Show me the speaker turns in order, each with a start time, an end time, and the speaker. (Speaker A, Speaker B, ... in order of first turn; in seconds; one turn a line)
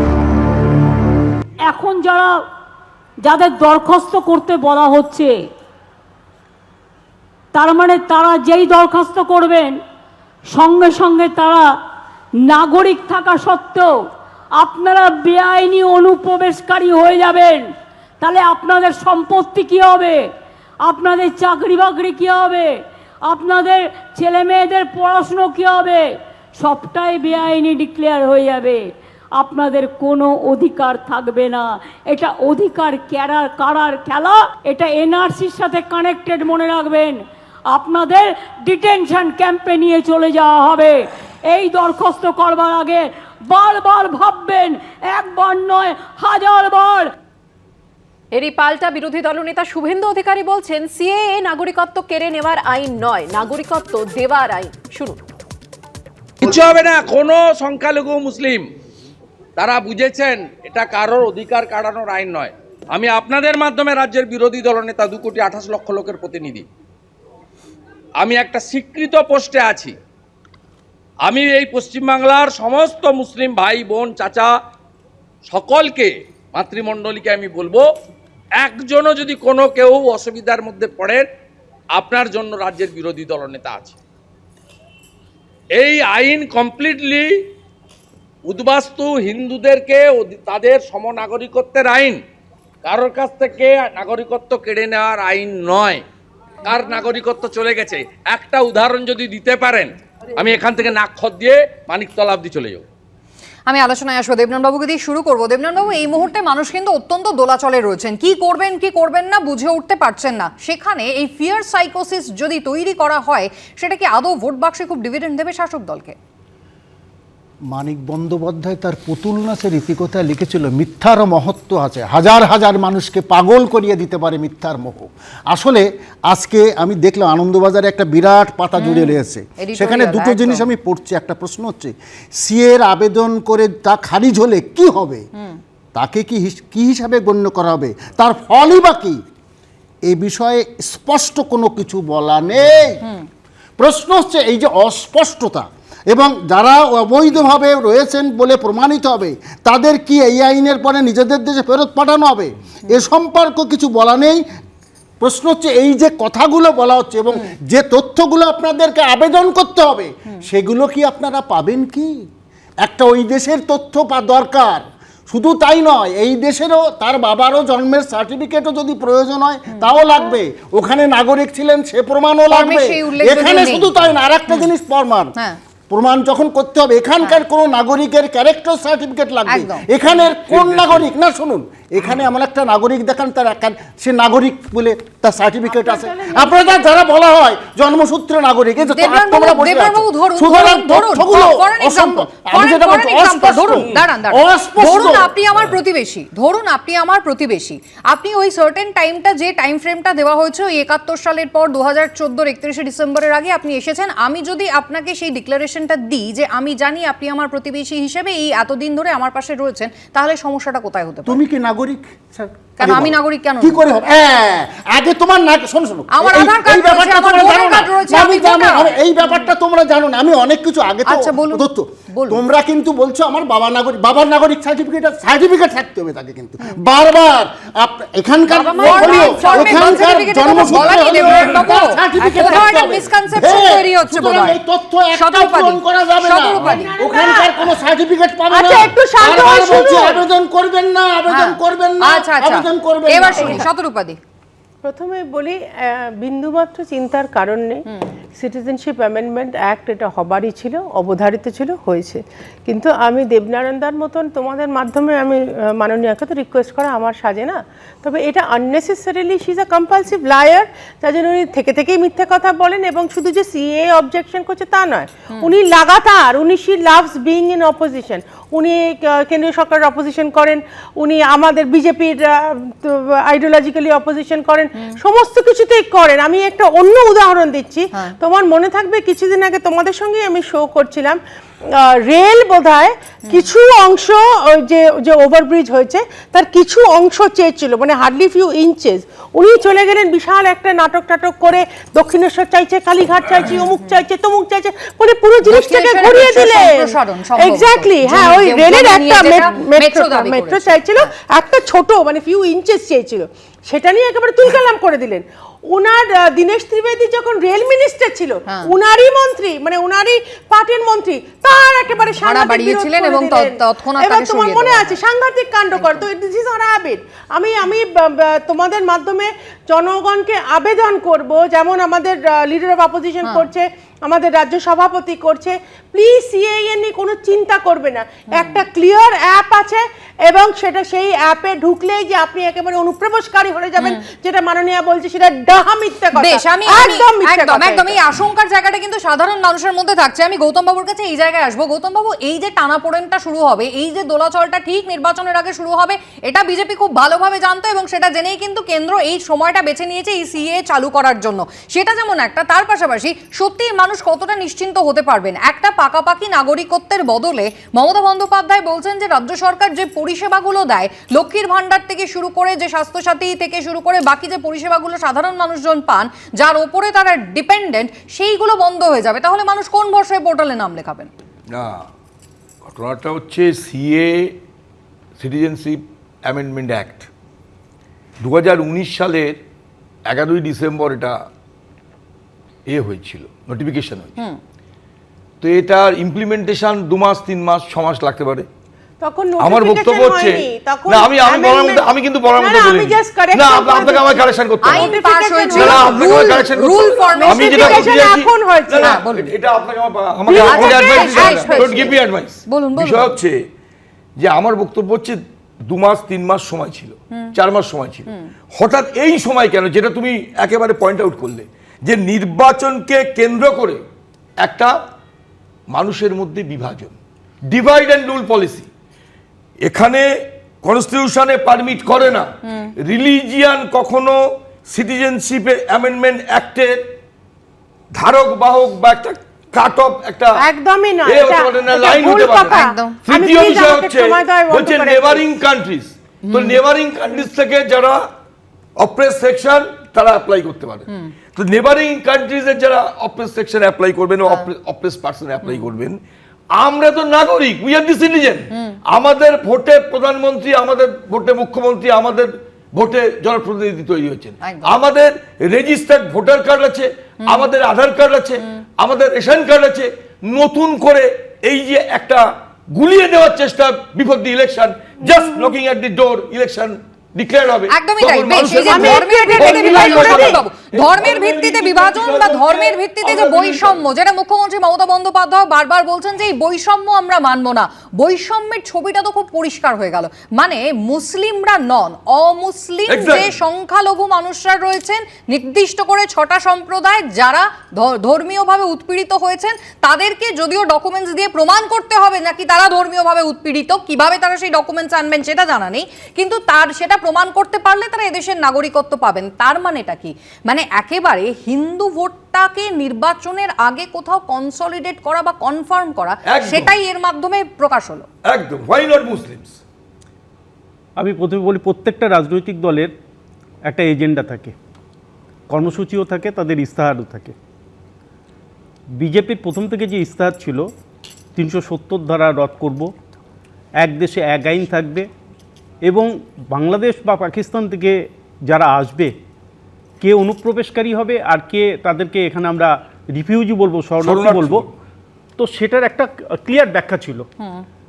Speaker A: 1.6-2.4
Speaker A: 3.2-5.3
Speaker A: 7.5-9.8
Speaker A: 10.5-11.7
Speaker A: 12.5-14.0
Speaker A: 14.6-20.2
Speaker A: 20.8-22.7
Speaker A: 23.2-26.0
Speaker A: 26.6-47.1
Speaker B: 48.3-55.2
Speaker C: 56.4-58.7
Speaker C: 59.6-66.7
Speaker C: 68.2-70.0
Speaker C: 71.2-74.5
Speaker C: 75.5-77.9
Speaker C: 78.6-81.2
Speaker C: 82.0-84.0
Speaker C: 85.8-87.4
Speaker C: 88.5-92.2
Speaker C: 92.8-96.0
Speaker C: 96.7-102.8
Speaker D: 103.7-116.2
Speaker E: 117.7-135.2
Speaker D: 128.8-130.7
Speaker E: 135.9-139.2
Speaker E: 140.1-143.0
Speaker E: 143.8-154.4
Speaker E: 155.2-162.2
Speaker E: 162.8-175.3
Speaker D: 172.5-173.9
Speaker E: 175.9-195.3
Speaker D: 179.5-179.9
Speaker F: 180.5-181.1
Speaker G: 185.6-186.9
Speaker D: 188.9-211.4
Speaker E: 211.3-243.7
Speaker D: 212.8-213.8
Speaker D: 216.2-219.5
Speaker D: 221.1-222.4
Speaker D: 228.5-234.6
Speaker G: 228.7-229.5
Speaker D: 235.2-236.9
Speaker G: 236.6-237.7
Speaker G: 238.5-240.2
Speaker D: 241.3-244.2
Speaker G: 243.4-243.7
Speaker G: 244.8-247.8
Speaker G: 248.4-281.2
Speaker G: 281.8-338.0
Speaker D: 295.4-301.1
Speaker D: 312.2-315.0
Speaker D: 315.7-316.0
Speaker D: 328.3-328.6
Speaker D: 336.1-371.1
Speaker F: 371.5-371.9
Speaker F: 372.7-374.4
Speaker F: 375.2-377.1
Speaker F: 378.2-379.4
Speaker F: 380.1-381.2
Speaker F: 382.7-384.2
Speaker F: 385.4-388.5
Speaker G: 389.0-396.4
Speaker F: 389.4-403.4
Speaker D: 394.6-398.0
Speaker G: 397.1-399.0
Speaker D: 398.8-399.3
Speaker G: 400.2-401.9
Speaker D: 400.3-403.1
Speaker F: 404.2-413.8
Speaker F: 414.4-414.8
Speaker F: 415.7-416.9
Speaker F: 417.5-418.7
Speaker F: 419.6-420.1
Speaker F: 420.6-426.9
Speaker F: 427.9-430.4
Speaker G: 430.4-435.4
Speaker F: 431.0-438.1
Speaker D: 432.0-433.0
Speaker D: 436.3-436.6
Speaker F: 438.8-446.0
Speaker F: 446.6-473.8
Speaker D: 454.4-454.7
Speaker G: 465.1-465.5
Speaker D: 467.7-508.1
Speaker G: 468.4-470.4
Speaker F: 482.9-483.3
Speaker F: 506.3-506.7
Speaker F: 508.2-509.6
Speaker H: 511.0-512.9
Speaker H: 513.7-514.5
Speaker H: 515.5-517.4
Speaker H: 519.0-520.7
Speaker H: 521.4-522.9
Speaker H: 523.8-525.1
Speaker H: 525.9-529.1
Speaker H: 530.0-534.7
Speaker F: 534.0-534.7
Speaker H: 535.4-537.3
Speaker D: 537.4-537.6